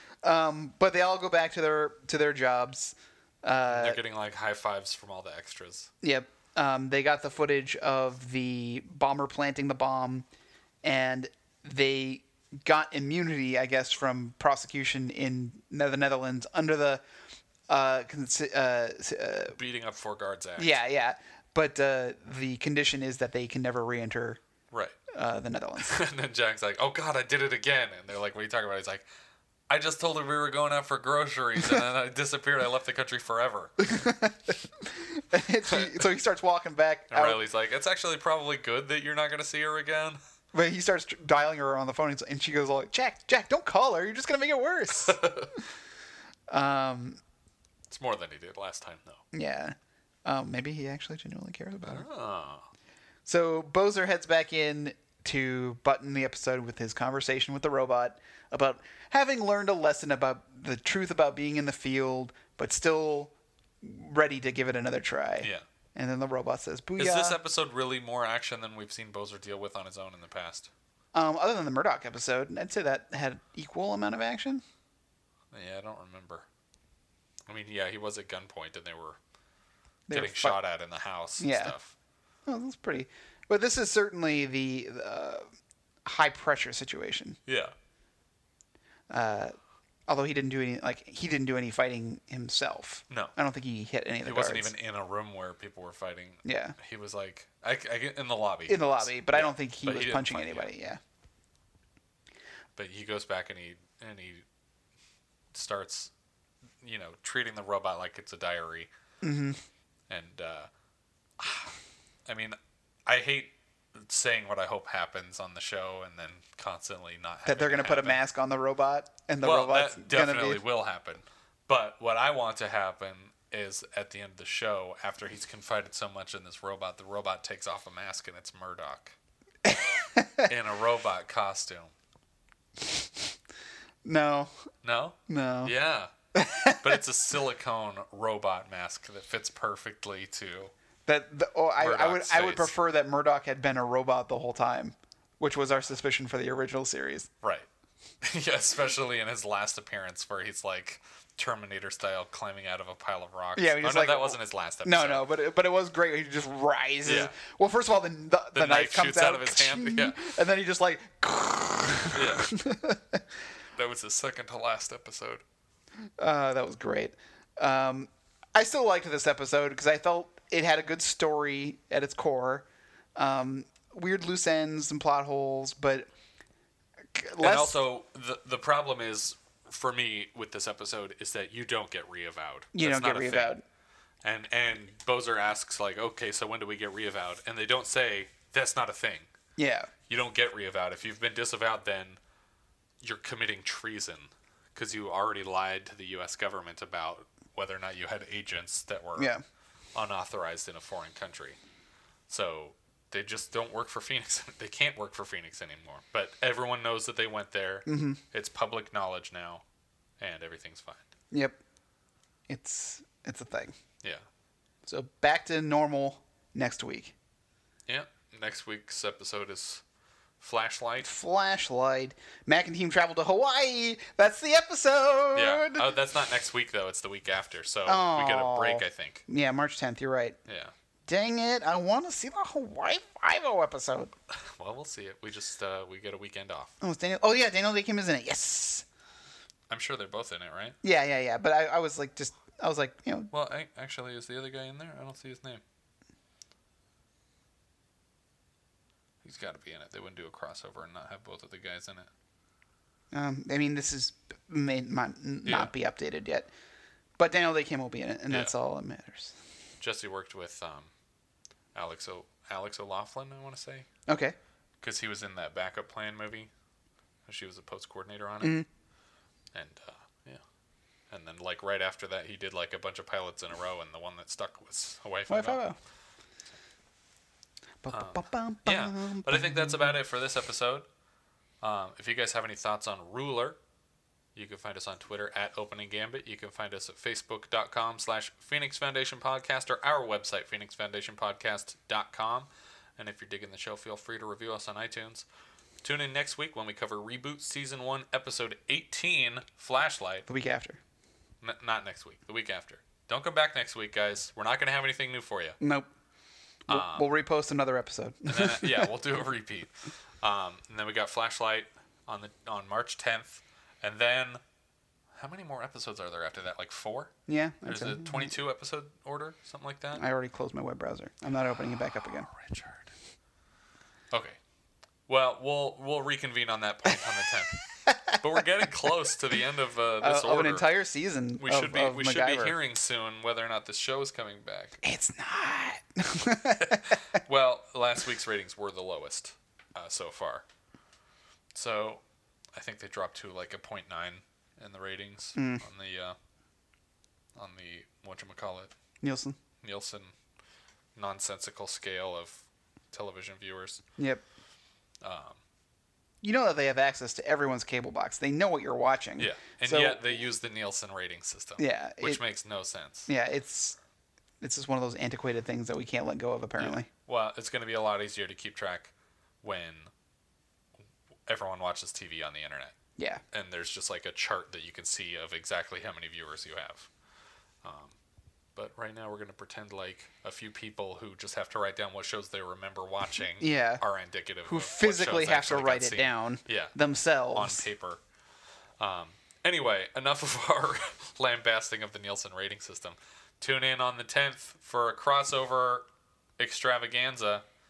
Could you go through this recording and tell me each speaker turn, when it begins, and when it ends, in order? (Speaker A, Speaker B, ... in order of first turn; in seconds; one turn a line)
Speaker A: 0.2-4.0
Speaker B: 3.6-5.9
Speaker A: 6.0-10.2
Speaker A: 10.8-17.0
Speaker A: 17.7-19.6
Speaker B: 19.5-20.8
Speaker A: 20.6-24.4
Speaker B: 24.7-25.0
Speaker A: 25.1-25.9
Speaker B: 25.8-29.0
Speaker B: 29.7-33.9
Speaker A: 33.8-37.4
Speaker B: 35.6-36.0
Speaker B: 37.1-40.2
Speaker A: 40.5-45.2
Speaker B: 44.9-45.6
Speaker A: 46.5-47.2
Speaker B: 47.9-49.2
Speaker A: 49.3-52.0
Speaker B: 51.8-52.7
Speaker A: 53.2-67.4
Speaker B: 67.0-70.7
Speaker A: 71.1-74.6
Speaker B: 75.5-76.5
Speaker B: 77.5-79.2
Speaker A: 80.1-80.6
Speaker B: 80.1-81.9
Speaker A: 81.4-81.7
Speaker A: 82.5-85.4
Speaker A: 86.0-87.4
Speaker B: 87.5-87.7
Speaker A: 89.1-89.5
Speaker A: 90.1-94.7
Speaker B: 94.2-100.7
Speaker A: 96.4-96.8
Speaker A: 98.7-101.0
Speaker B: 102.8-104.4
Speaker B: 105.5-106.1
Speaker B: 106.8-108.9
Speaker A: 109.2-109.6
Speaker B: 110.1-110.7
Speaker B: 111.4-118.2
Speaker A: 117.5-120.6
Speaker B: 119.4-129.2
Speaker A: 129.6-130.5
Speaker B: 130.4-131.9
Speaker A: 132.8-133.3
Speaker A: 134.0-134.5
Speaker B: 134.8-136.1
Speaker A: 135.3-135.7
Speaker A: 136.3-137.0
Speaker B: 136.8-140.7
Speaker A: 141.1-147.3
Speaker B: 141.8-142.7
Speaker B: 147.4-147.7
Speaker B: 148.2-155.2
Speaker A: 153.6-163.2
Speaker B: 157.0-157.3
Speaker B: 158.5-160.2
Speaker B: 162.1-162.5
Speaker B: 163.7-165.4
Speaker A: 166.2-176.1
Speaker A: 177.1-177.8
Speaker B: 177.4-183.5
Speaker A: 182.7-183.6
Speaker B: 184.2-189.3
Speaker A: 189.6-189.9
Speaker B: 190.1-192.2
Speaker B: 193.0-199.3
Speaker A: 199.2-199.4
Speaker B: 199.9-201.6
Speaker B: 202.3-209.6
Speaker A: 207.9-208.2
Speaker B: 210.2-211.1
Speaker A: 211.3-211.6
Speaker A: 212.5-213.7
Speaker A: 214.8-217.1
Speaker B: 217.9-219.8
Speaker B: 220.4-221.1
Speaker A: 221.0-225.8
Speaker B: 225.3-229.2
Speaker A: 227.8-230.4
Speaker B: 230.5-230.7
Speaker A: 231.1-234.1
Speaker B: 234.3-236.8
Speaker A: 236.8-238.8
Speaker B: 239.7-240.8
Speaker A: 240.8-243.3
Speaker B: 243.3-245.6
Speaker B: 249.2-252.1
Speaker A: 253.1-256.5
Speaker B: 255.4-255.7
Speaker A: 257.2-259.4
Speaker B: 259.8-260.9
Speaker B: 261.7-263.9
Speaker A: 264.1-264.4
Speaker B: 264.8-266.5
Speaker B: 267.2-268.6
Speaker A: 268.4-268.7
Speaker B: 269.5-270.4
Speaker B: 271.1-275.6
Speaker A: 275.3-275.8
Speaker A: 277.8-279.9
Speaker B: 277.9-280.9
Speaker B: 281.6-283.6
Speaker B: 284.3-295.2
Speaker B: 295.8-300.3
Speaker A: 300.3-300.8
Speaker B: 301.4-305.6
Speaker A: 305.6-305.9
Speaker A: 306.7-308.9
Speaker B: 306.7-307.1
Speaker B: 308.3-314.4
Speaker B: 315.1-317.1
Speaker A: 317.3-318.3
Speaker B: 317.6-320.0
Speaker A: 319.9-322.3
Speaker B: 322.3-322.9
Speaker B: 324.1-324.4
Speaker B: 325.1-330.7
Speaker A: 327.9-328.2
Speaker A: 330.0-332.6
Speaker B: 331.4-334.8
Speaker A: 334.8-337.0
Speaker B: 336.5-340.4
Speaker B: 341.5-342.0
Speaker B: 342.5-346.1
Speaker A: 345.4-345.6
Speaker B: 347.4-348.7
Speaker A: 349.0-349.4
Speaker B: 349.6-350.1
Speaker B: 350.9-353.8
Speaker A: 354.0-354.2
Speaker B: 355.0-355.4
Speaker A: 356.2-360.0
Speaker B: 359.2-363.1
Speaker A: 361.6-362.2
Speaker A: 363.1-363.8
Speaker A: 364.4-366.9
Speaker B: 366.6-369.9
Speaker B: 371.3-372.7
Speaker A: 373.0-373.2
Speaker B: 373.3-376.9
Speaker B: 377.6-377.9
Speaker B: 378.6-386.7
Speaker A: 383.4-383.8
Speaker A: 384.4-387.6
Speaker B: 387.3-388.0
Speaker B: 388.8-395.9
Speaker B: 396.4-397.4